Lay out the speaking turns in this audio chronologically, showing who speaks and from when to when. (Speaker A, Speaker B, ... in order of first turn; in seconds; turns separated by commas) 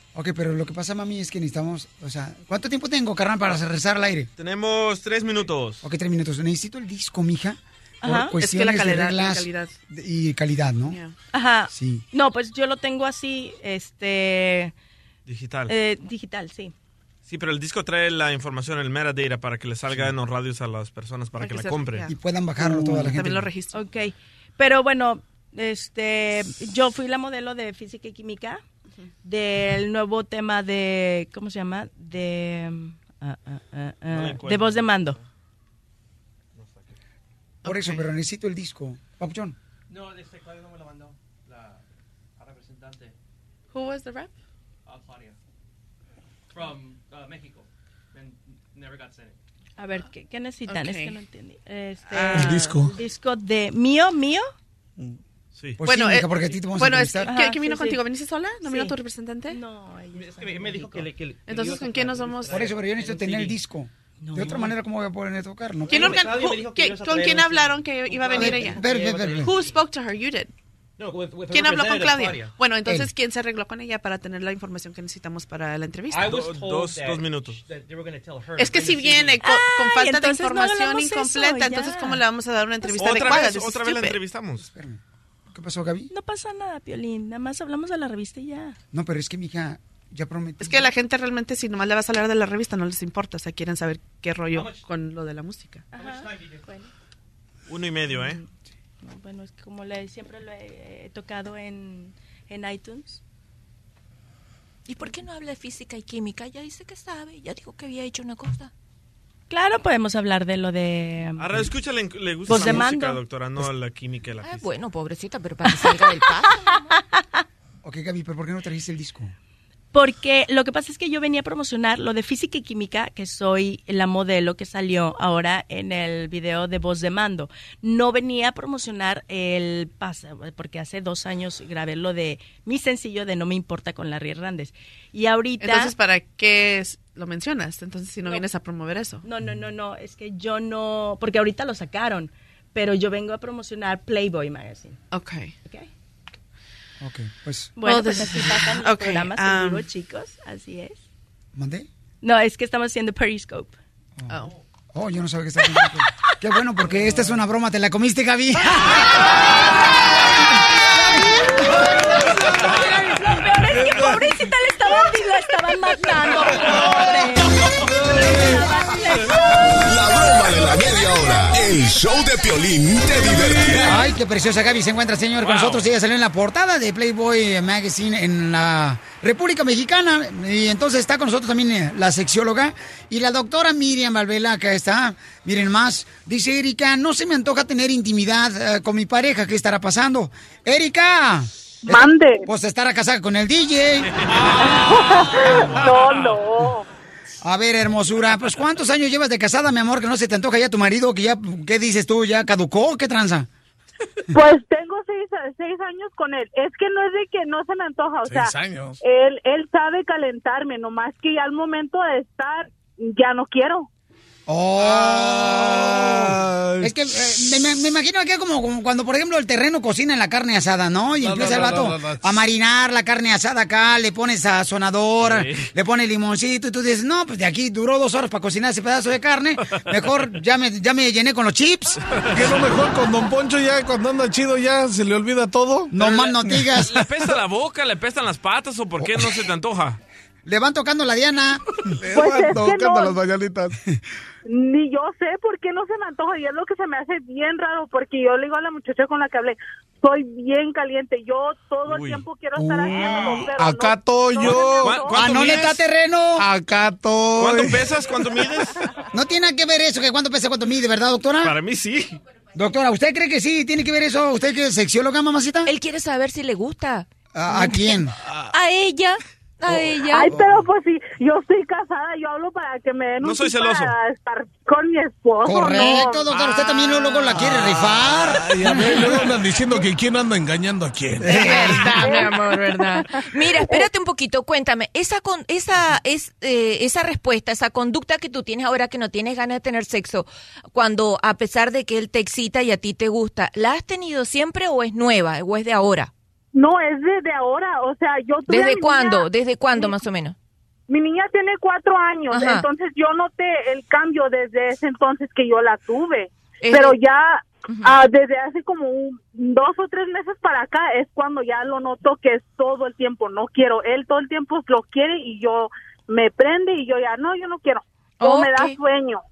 Speaker A: 0.1-4.3, Speaker B: 4.4-5.8, Speaker A: 5.8-11.0, Speaker C: 8.0-8.3, Speaker D: 8.4-9.8, Speaker D: 10.8-11.1, Speaker C: 11.3-14.7, Speaker A: 11.7-12.0, Speaker B: 15.3-15.7, Speaker C: 15.7-16.7, Speaker B: 17.2-22.1, Speaker D: 21.4-23.8, Speaker A: 22.1-23.5, Speaker C: 23.7-28.6, Speaker C: 29.2-35.2, Speaker B: 34.1-35.2, Speaker D: 37.6-38.0, Speaker A: 37.6-39.5, Speaker E: 39.9-41.8, Speaker E: 42.4-43.1, Speaker D: 43.7-44.3, Speaker E: 44.9-45.4, Speaker E: 46.5-49.4, Speaker C: 49.8-54.5, Speaker D: 50.7-51.2, Speaker D: 52.1-53.0, Speaker F: 52.3-52.9, Speaker B: 55.5-55.8, Speaker A: 55.8-57.3, Speaker D: 55.8-59.6, Speaker C: 57.3-58.0, Speaker C: 58.6-58.9, Speaker C: 59.5-61.0, Speaker E: 60.1-63.6, Speaker D: 61.4-62.7, Speaker A: 62.5-66.2, Speaker C: 64.2-64.7, Speaker D: 65.9-70.5, Speaker E: 65.9-69.5, Speaker A: 68.3-69.5, Speaker E: 71.0-72.5, Speaker D: 71.5-76.4, Speaker E: 76.1-79.5, Speaker B: 76.3-77.6, Speaker D: 78.5-84.2, Speaker C: 79.4-82.2, Speaker B: 83.0-84.7, Speaker A: 84.6-85.0, Speaker A: 85.5-86.1, Speaker C: 86.1-88.8, Speaker A: 88.9-90.9, Speaker D: 90.6-95.8, Speaker C: 95.9-96.9, Speaker E: 96.0-96.6, Speaker B: 97.7-98.4, Speaker C: 98.0-98.4, Speaker C: 99.0-103.2, Speaker G: 104.9-108.7, Speaker C: 109.5-111.5, Speaker B: 111.4-114.6, Speaker C: 112.5-113.2, Speaker A: 112.5-112.8, Speaker G: 114.4-116.9, Speaker C: 115.7-117.4, Speaker A: 117.8-119.3, Speaker C: 119.9-135.9, Speaker D: 135.6-139.2, Speaker C: 139.2-145.0, Speaker D: 145.1-145.5, Speaker A: 147.0-147.7, Speaker C: 147.8-151.0, Speaker D: 147.8-149.8, Speaker A: 151.6-151.9, Speaker C: 152.2-153.8, Speaker D: 154.3-154.5, Speaker A: 154.9-159.1, Speaker C: 162.5-171.4, Speaker F: 163.7-164.2, Speaker F: 168.2-168.5, Speaker H: 169.7-174.1, Speaker A: 173.9-194.1, Speaker B: 175.4-175.8, Speaker I: 191.9-192.4, Speaker B: 194.3-196.3, Speaker I: 194.6-196.8, Speaker A: 197.4-203.5, Speaker I: 204.3-213.9, Speaker F: 208.2-208.9, Speaker A: 214.5-232.0, Speaker F: 214.8-216.9, Speaker F: 221.2-222.2, Speaker B: 225.2-225.7, Speaker F: 232.3-237.3, Speaker A: 235.9-237.0, Speaker B: 236.7-240.0, Speaker A: 239.0-239.3, Speaker A: 240.4-241.7, Speaker F: 242.0-243.8, Speaker I: 242.1-243.2, Speaker I: 244.5-255.2, Speaker B: 251.9-252.2, Speaker F: 252.6-255.1, Speaker B: 254.8-255.8, Speaker A: 255.1-256.4, Speaker F: 256.4-257.9, Speaker B: 257.4-258.8, Speaker A: 259.1-261.5, Speaker B: 261.4-262.2, Speaker A: 262.6-265.7, Speaker G: 265.6-267.1, Speaker A: 267.3-268.1, Speaker G: 268.5-269.1, Speaker G: 269.6-270.3, Speaker I: 270.1-276.2, Speaker A: 270.3-270.6, Speaker B: 273.2-273.9, Speaker A: 275.4-279.0, Speaker B: 276.3-277.8, Speaker F: 277.4-282.0, Speaker A: 281.3-281.8, Speaker B: 281.4-283.0, Speaker I: 281.8-282.3, Speaker G: 282.9-296.1, Speaker I: 296.5-300.0, Speaker G: 298.5-300.4, Speaker I: 300.9-319.2, Speaker G: 302.3-302.7, Speaker G: 306.6-307.0, Speaker G: 307.7-308.0, Speaker G: 318.2-318.8